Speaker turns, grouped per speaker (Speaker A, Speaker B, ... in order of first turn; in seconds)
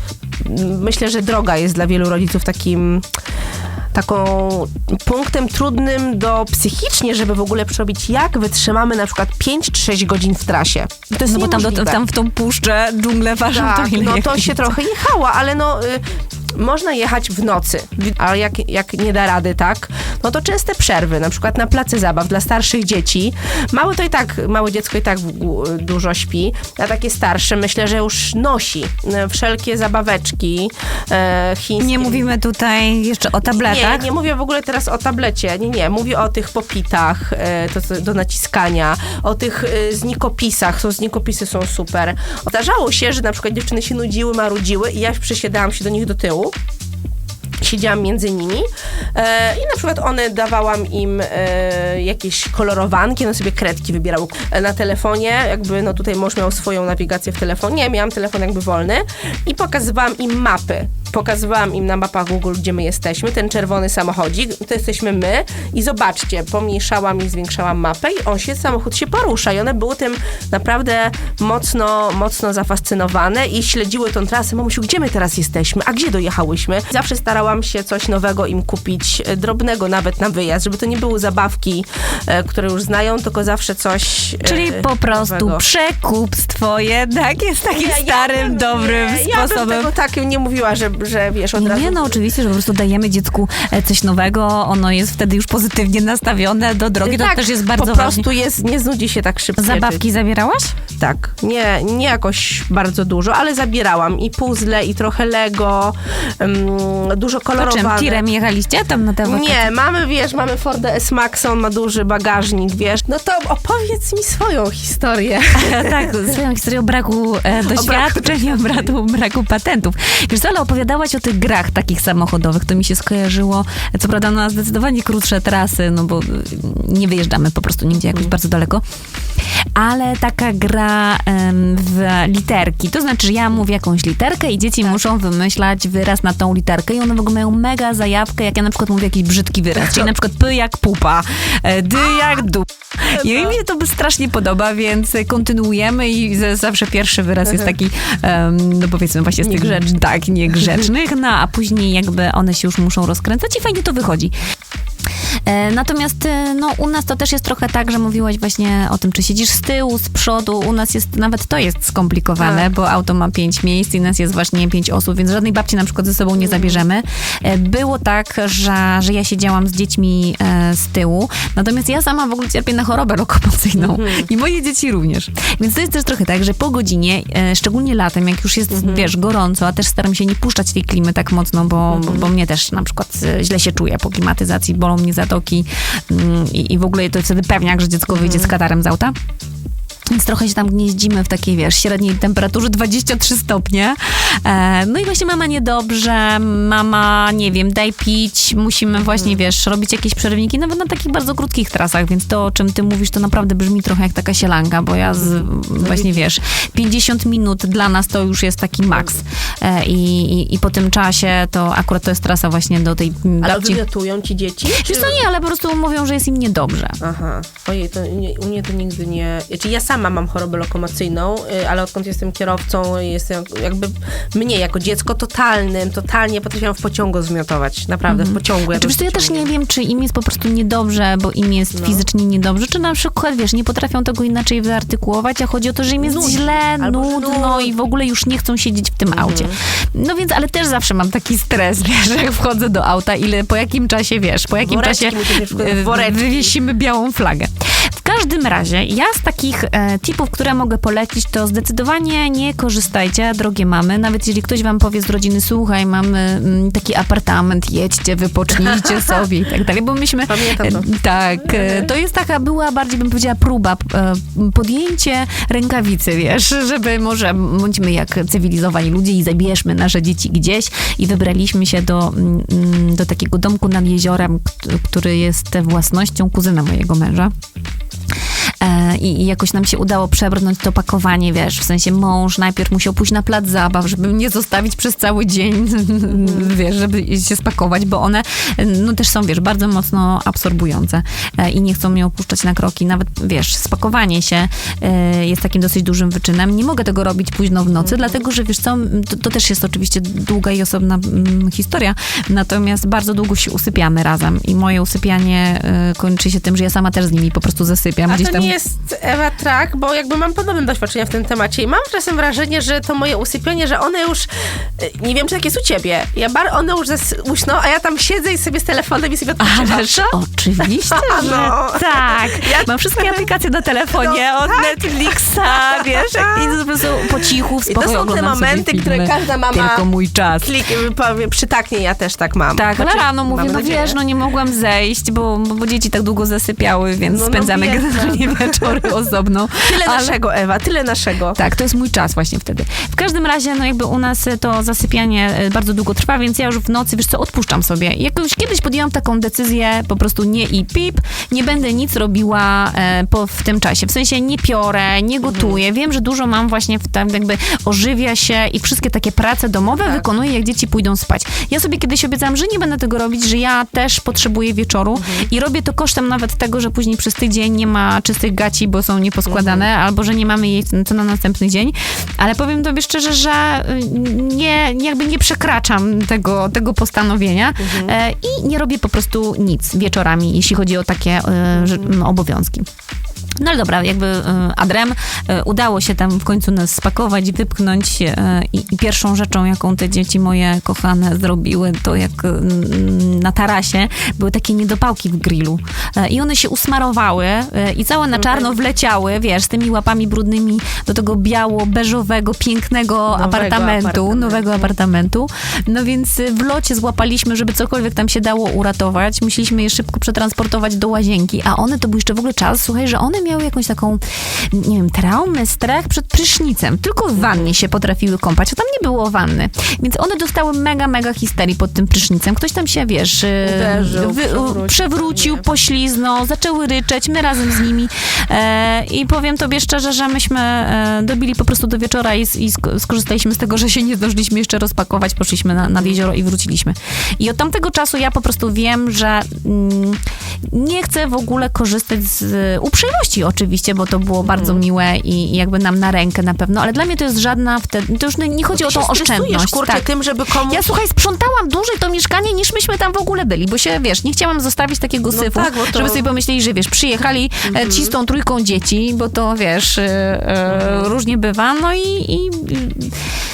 Speaker A: 0.4-3.1, 3.9-12.0, 13.5-32.3, 33.5-46.5, 47.6-85.7, 87.7-92.2, 97.0-100.0, 101.0-108.2, 109.2-116.1, 117.6-118.9, 143.2-143.6, 147.5-147.7, 149.4-150.0, 162.4-162.7, 166.4-166.8, 173.8-174.3, 178.7-179.1, 181.9-182.3, 188.1-188.5, 199.0-199.4, 205.2-206.2, 213.4-215.3, 217.0-229.5, 231.7-232.1, 236.0-237.7, 239.1-239.6, 244.6-246.5, 258.7-259.2, 260.3-260.9, 261.4-261.9, 286.1-286.5, 297.8-298.2, 308.1-323.3, 323.9-329.9, 330.4-334.0, 337.1-338.9, 339.6-341.4, 355.2-355.6, 359.8-360.1, 365.0-365.3, 369.3-369.7, 377.6-377.9, 381.6-381.9, 398.1-398.6, 403.1-404.7, 417.2-417.5, 423.4-425.5, 435.6-436.0, 444.2-444.6, 448.5-450.8, 455.1-456.1, 457.5-457.9, 460.5-460.9
Speaker B: 11.2-14.7, 31.8-34.1, 84.4-89.9, 91.6-98.3, 99.6-100.8, 107.6-109.7, 115.5-128.8, 129.8-154.3, 155.5-189.2, 190.1-213.8, 214.7-217.0, 228.1-277.3, 278.6-308.5, 319.4-330.5, 332.5-340.2, 341.4-382.7, 383.4-449.8, 450.5-463.0